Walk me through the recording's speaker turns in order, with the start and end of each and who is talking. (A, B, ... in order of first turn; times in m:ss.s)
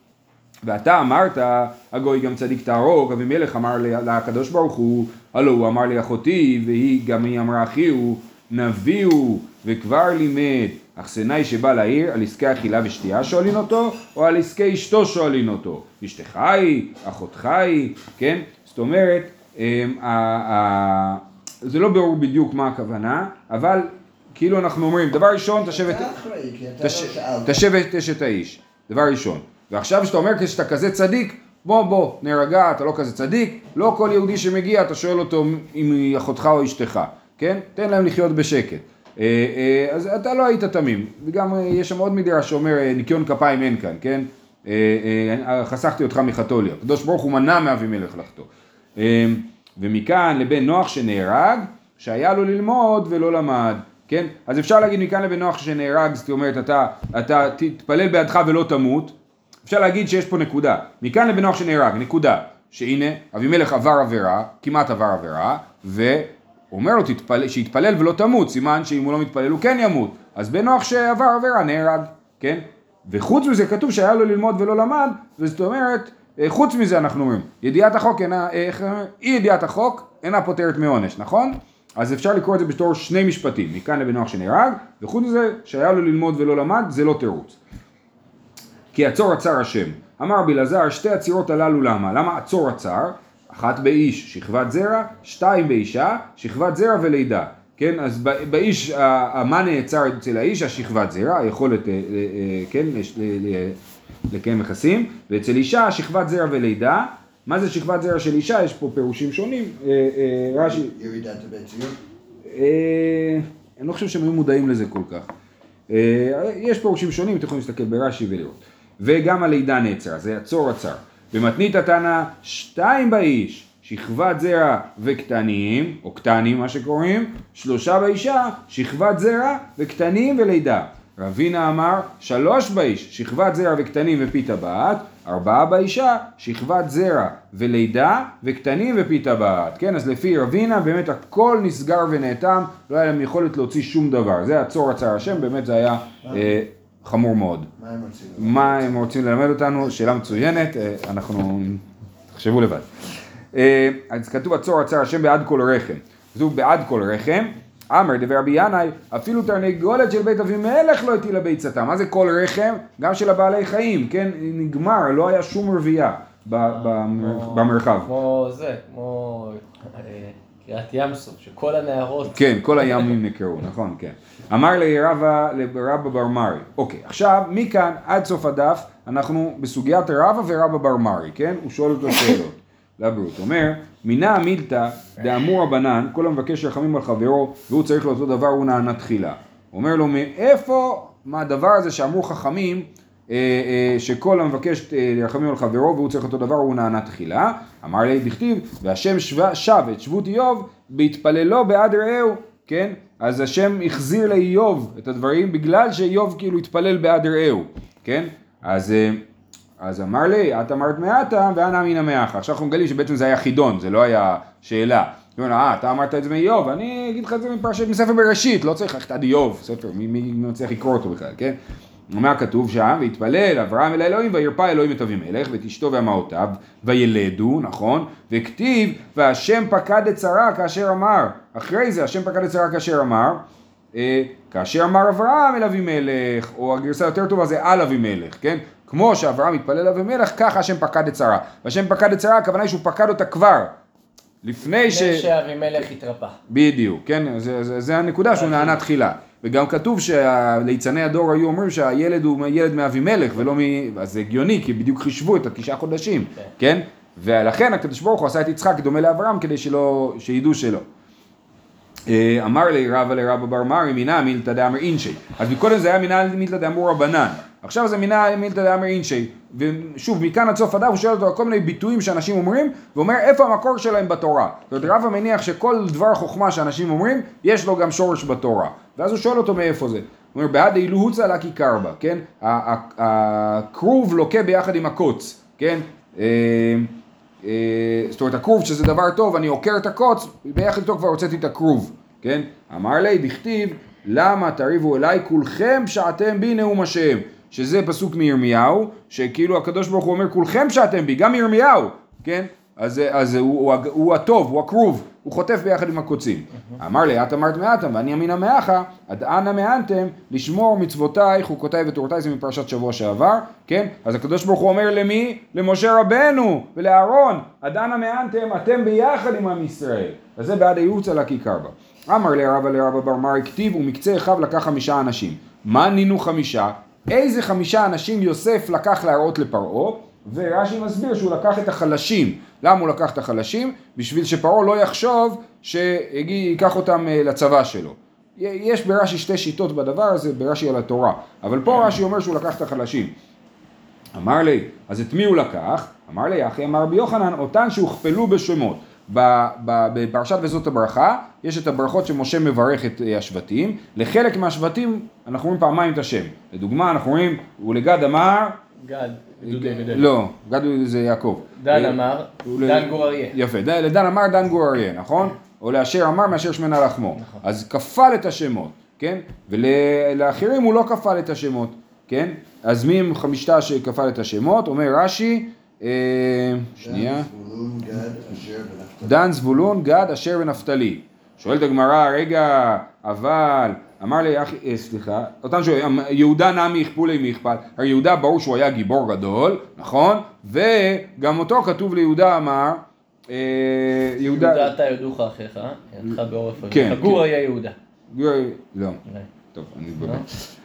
0:00.6-0:26.1 A
0:25.7-0:27.6 B
0:26.8-0:59.1 A
0:59.6-1:27.6 A
1:28.9-1:43.8 A
1:44.3-1:50.9 A
1:50.5-1:52.0 B
1:52.5-1:55.3 A
1:55.9-2:27.7 A
2:26.2-2:26.6 B
2:27.8-2:29.2 B
2:28.4-2:32.9 A
2:29.8-2:30.4 B
2:33.5-2:48.1 A
2:46.6-2:53.1 C
2:52.3-3:29.2 A
3:29.8-3:41.6 A
3:42.1-3:53.4 A
3:53.9-4:03.7 A
4:04.4-4:05.3 A
4:04.6-4:06.4 C
4:06.5-4:20.8 A
4:08.3-4:08.8 C
4:22.1-5:43.1 A
5:44.1-5:58.6 A
5:58.8-6:00.1 C
5:59.4-6:17.3 A
6:01.6-6:03.4 C
6:16.8-6:19.2 B
6:19.0-6:34.7 A
6:34.3-6:37.8 C
6:36.7-6:37.2 A
6:38.1-6:39.0 A
6:39.5-6:40.3 A